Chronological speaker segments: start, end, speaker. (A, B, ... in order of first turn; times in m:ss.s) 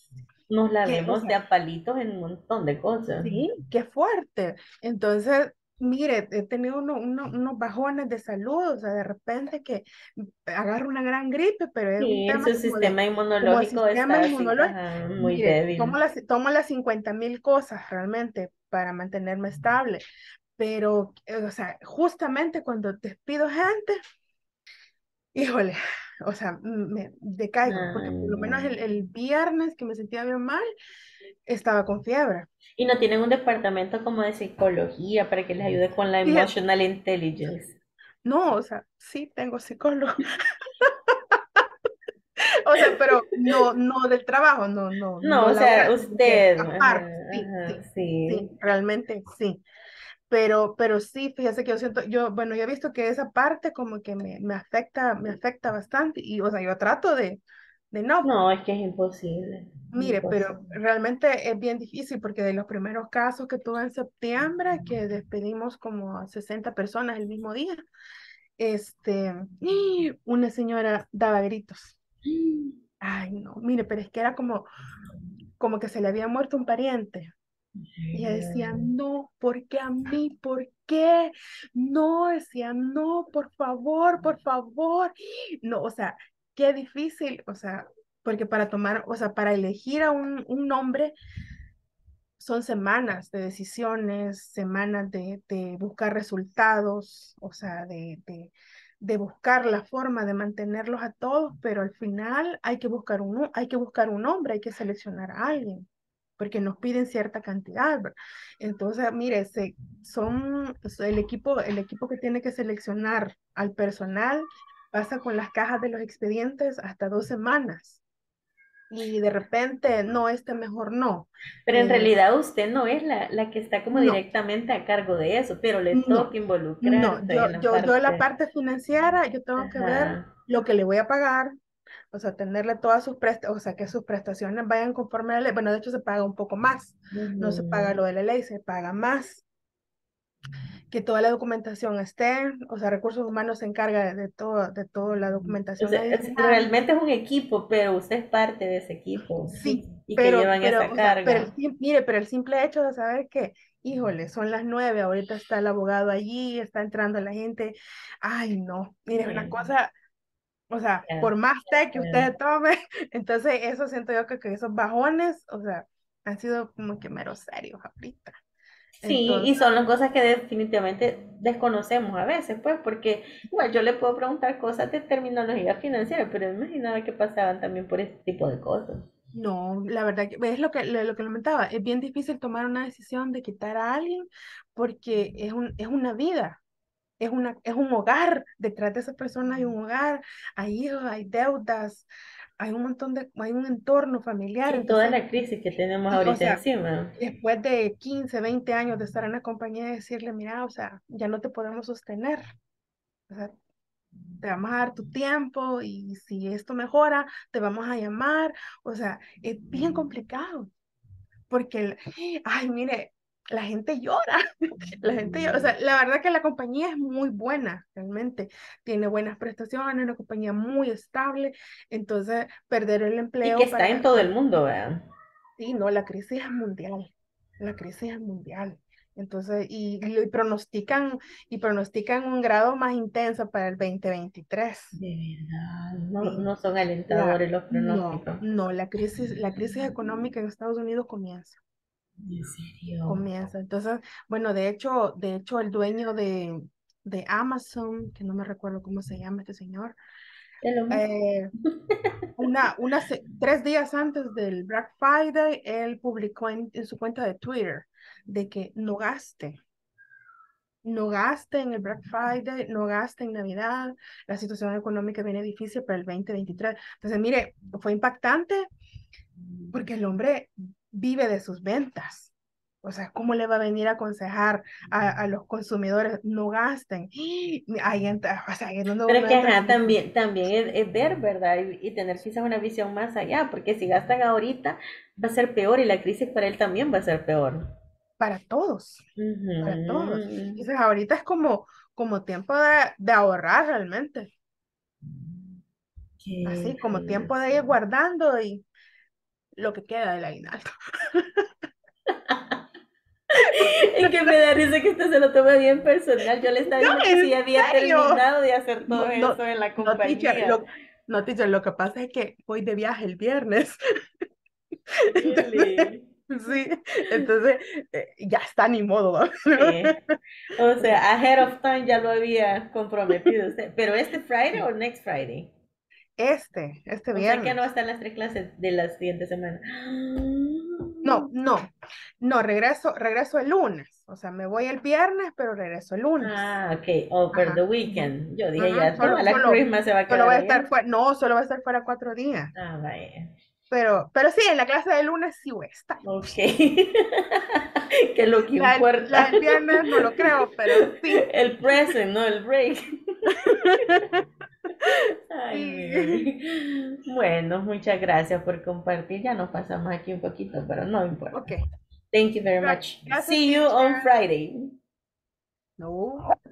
0:00.5-0:03.4 A
0:00.8-0:01.3 B
0:03.2-0:20.0 B
0:12.0-0:16.0 A
0:20.6-0:24.0 B
0:25.4-0:30.7 B
0:27.7-0:28.7 A
0:31.5-0:32.5 B
0:32.8-0:37.8 A
0:36.2-0:36.5 B
0:38.2-0:40.3 B
0:40.8-0:41.6 B
0:42.4-0:49.6 B
0:45.2-0:48.5 A
0:50.3-0:57.4 B
0:57.9-0:58.3 B
0:58.2-1:00.7 A
0:59.9-1:07.8 B
1:08.6-1:12.0 B
1:12.3-1:12.8 A
1:13.0-1:14.7 B
1:15.6-1:17.3 B
1:17.8-1:18.9 A
1:18.1-1:31.1 B
1:32.4-1:45.9 B
1:46.4-1:58.0 B
1:58.9-2:02.1 B
2:01.7-2:08.3 A
2:03.9-2:04.2 B
2:05.9-2:06.3 B
2:06.8-2:11.6 B
2:09.6-2:10.3 A
2:12.1-2:19.4 B
2:17.1-2:17.9 A
2:20.9-2:26.7 B
2:25.8-2:31.5 A
2:29.5-2:39.9 B
2:39.2-2:39.7 A
2:40.7-2:48.4 B
2:42.0-2:42.3 A
2:49.0-2:59.0 A
2:49.0-2:49.5 B
2:59.3-3:06.6 B
3:07.2-3:12.1 B
3:12.6-3:15.2 B
3:14.7-3:17.2 A
3:16.1-3:16.6 B
3:17.2-3:22.4 B
3:24.4-3:30.7 B
3:31.5-3:44.3 B
3:43.4-3:45.1 A
3:45.6-3:54.9 B
3:55.0-3:58.4 A
3:57.1-4:01.6 B
4:02.2-4:03.2 A
4:03.1-4:10.0 B
4:10.6-4:11.0 A
4:10.9-4:11.5 B
4:12.4-4:19.6 B
4:20.8-4:28.7 B
4:29.7-4:32.3 B
4:32.8-4:39.9 B
4:39.1-4:47.7 A
4:48.2-4:49.1 B
4:49.2-4:50.6 A
4:49.6-4:54.3 B
4:55.2-4:55.5 A
4:56.2-4:57.3 A
4:56.4-4:58.6 B
4:59.6-5:01.5 B
5:03.4-5:10.6 A
5:03.5-5:04.2 B
5:06.8-5:08.2 B
5:08.9-5:13.8 B
5:15.2-5:20.2 B
5:15.2-5:16.1 A
5:19.6-5:19.9 A
5:20.6-5:25.5 A
5:26.2-5:27.6 B
5:27.2-5:31.2 A
5:31.0-5:36.6 B
5:36.2-5:40.7 A
5:37.3-5:42.5 B
5:42.6-5:43.3 A
5:43.7-5:46.0 B
5:46.0-5:49.3 A
5:48.6-5:51.2 B
5:51.3-5:54.0 A
5:53.4-5:54.2 B
5:54.9-6:01.4 A
5:55.5-5:56.2 B
6:01.3-6:01.7 B
6:02.1-6:04.7 A
6:02.6-6:04.1 B
6:05.8-6:06.3 B